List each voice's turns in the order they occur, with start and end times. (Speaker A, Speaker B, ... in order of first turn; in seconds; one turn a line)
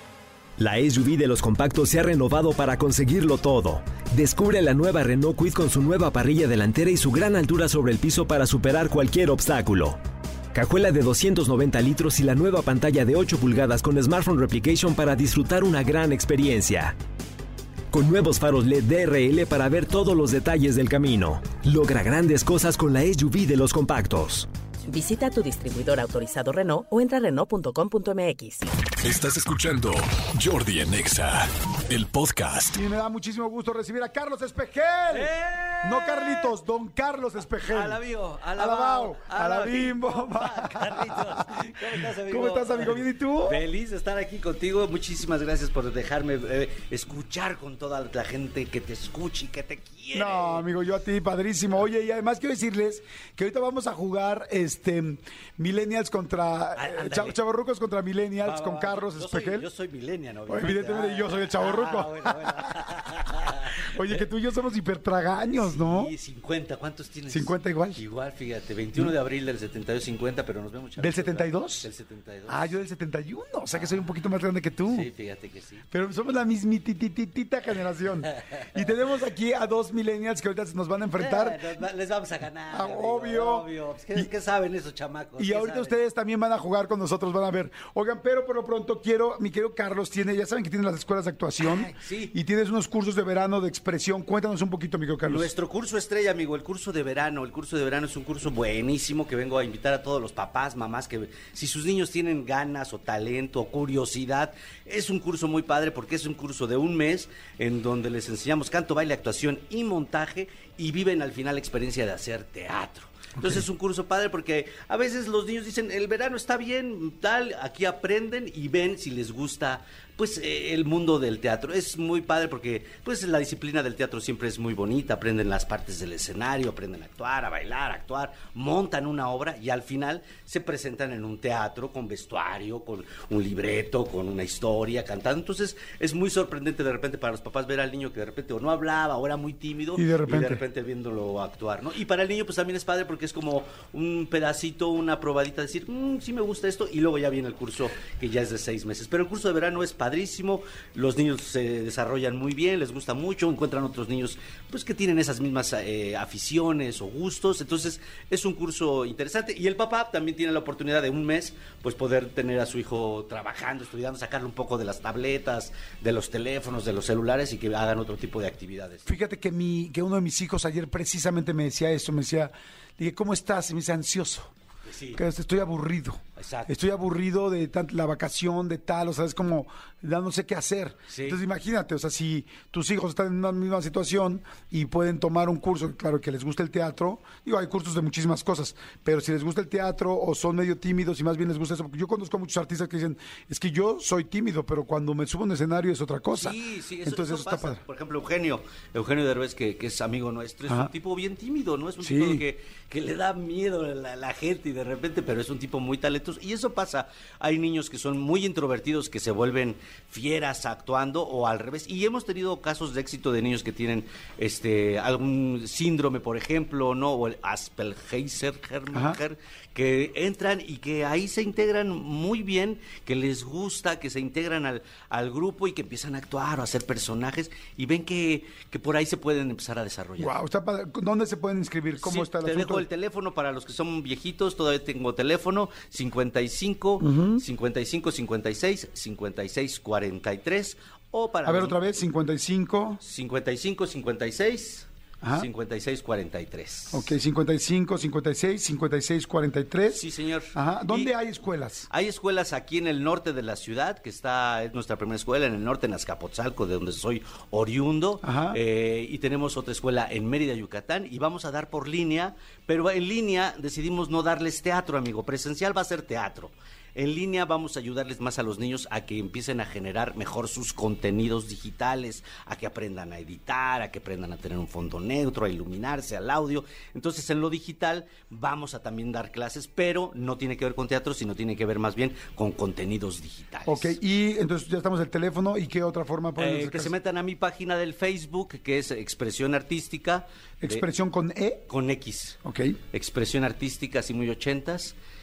Speaker A: 0.6-10.0
Speaker A: 10.5-16.9
Speaker A: 17.9-24.5
Speaker B: 24.9-28.7
Speaker C: 29.0-32.8
Speaker D: 32.7-38.0
Speaker E: 35.1-36.5
Speaker E: 37.7-50.6
Speaker D: 38.5-43.6
Speaker D: 50.1-59.6
Speaker E: 56.8-57.4
Speaker E: 58.4-64.2
Speaker D: 60.5-66.1
Speaker E: 65.5-72.7
Speaker D: 67.3-68.0
Speaker D: 71.0-71.9
Speaker D: 72.5-75.1
Speaker E: 74.8-75.8
Speaker D: 75.9-81.8
Speaker E: 81.2-86.0
Speaker D: 82.7-84.3
Speaker D: 85.4-95.5
Speaker E: 91.6-92.3
Speaker E: 95.2-169.1
Speaker D: 139.9-140.6
Speaker D: 169.1-174.5
Speaker E: 174.8-175.2
Speaker D: 175.1-197.8
Speaker E: 176.3-176.7
Speaker E: 181.1-181.4
Speaker E: 196.3-230.3
Speaker D: 200.7-200.9
Speaker D: 202.0-202.4
Speaker D: 218.9-219.2
Speaker D: 230.2-232.9
Speaker E: 231.9-241.8
Speaker D: 237.0-237.4
Speaker D: 241.4-243.0
Speaker E: 243.0-247.1
Speaker D: 245.2-245.5
Speaker D: 246.9-251.9
Speaker E: 249.9-251.1
Speaker E: 251.9-284.0
Speaker D: 258.2-258.6
Speaker D: 283.6-286.9
Speaker E: 286.4-290.8
Speaker D: 290.6-291.7
Speaker E: 291.7-292.4
Speaker D: 292.4-292.8
Speaker E: 292.9-294.9